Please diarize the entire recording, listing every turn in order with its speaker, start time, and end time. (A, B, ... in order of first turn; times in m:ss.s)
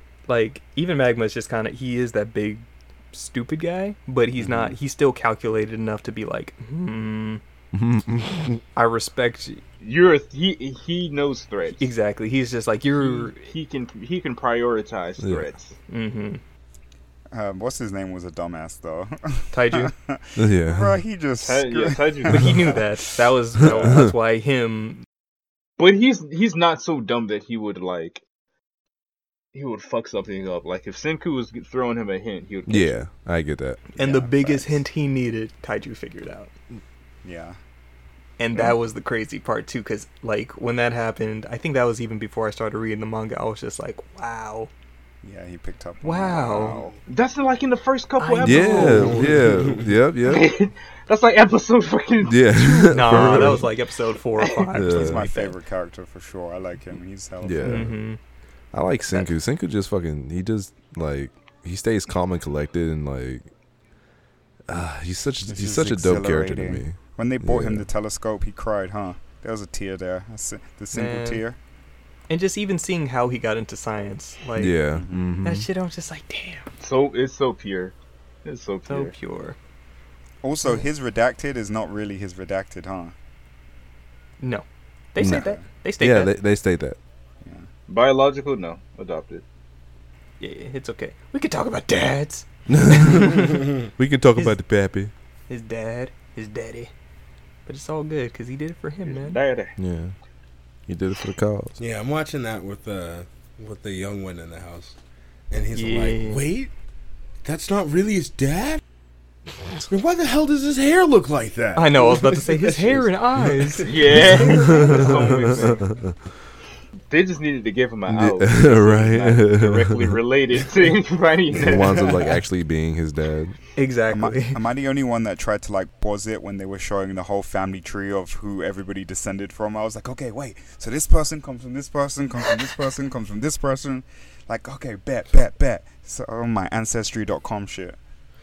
0:00.3-0:07.4 A
0:04.4-0:04.7 B
0:07.7-0:08.6 B
0:08.7-0:09.6 A
0:09.8-0:11.8 C
0:11.8-0:13.4 A
0:13.0-0:15.8 C
0:15.2-0:15.4 B
0:15.9-0:16.4 A
0:17.3-0:22.8 D
0:19.5-0:19.9 A
0:20.4-0:21.0 B
0:21.4-0:22.5 C
0:22.3-0:25.0 A
0:23.6-0:24.1 B
0:23.6-0:23.9 C
0:25.8-0:28.2 C
0:29.5-0:33.0 C
0:32.7-0:33.9 B
0:33.9-0:34.7 D
0:34.0-0:36.5 A
0:37.2-0:37.6 D
0:38.4-0:44.7 A
0:45.2-0:47.0 D
0:46.0-0:46.9 A
0:47.1-0:49.4 C
0:48.2-0:49.4 A
0:48.4-0:50.5 B
0:49.4-0:49.8 E
0:50.2-0:52.4 C
0:52.2-0:53.7 B
0:52.6-0:55.5 A
0:53.1-0:53.6 C
0:54.7-0:55.3 B
0:54.9-0:57.9 D
0:57.4-0:58.0 B
0:57.6-0:58.2 A
0:58.7-1:03.5 B
1:04.7-1:07.9 B
1:05.4-1:11.6 D
1:10.9-1:11.4 A
1:12.3-1:14.8 A
1:14.6-1:15.7 B
1:14.9-1:15.3 D
1:15.4-1:16.7 A
1:16.8-1:19.1 C
1:18.9-1:19.6 A
1:20.4-1:23.1 D
1:24.4-1:26.4 A
1:25.2-1:25.4 B
1:25.2-1:25.6 D
1:26.0-1:27.0 B
1:27.9-1:29.4 C
1:30.4-1:33.7 A
1:32.7-1:35.1 B
1:35.5-1:36.9 A
1:37.6-1:39.4 A
1:39.0-1:39.7 C
1:39.8-1:40.1 B
1:40.9-1:41.8 B
1:41.8-1:45.0 E
1:45.5-1:46.7 E
1:45.7-1:46.4 A
1:47.4-1:48.8 E
1:49.7-1:55.4 E
1:51.8-1:55.0 A
1:53.8-1:55.8 C
1:54.7-1:56.1 B
1:57.1-2:02.4 C
1:58.1-2:00.2 B
2:01.6-2:03.6 B
2:03.7-2:04.6 A
2:04.1-2:18.0 D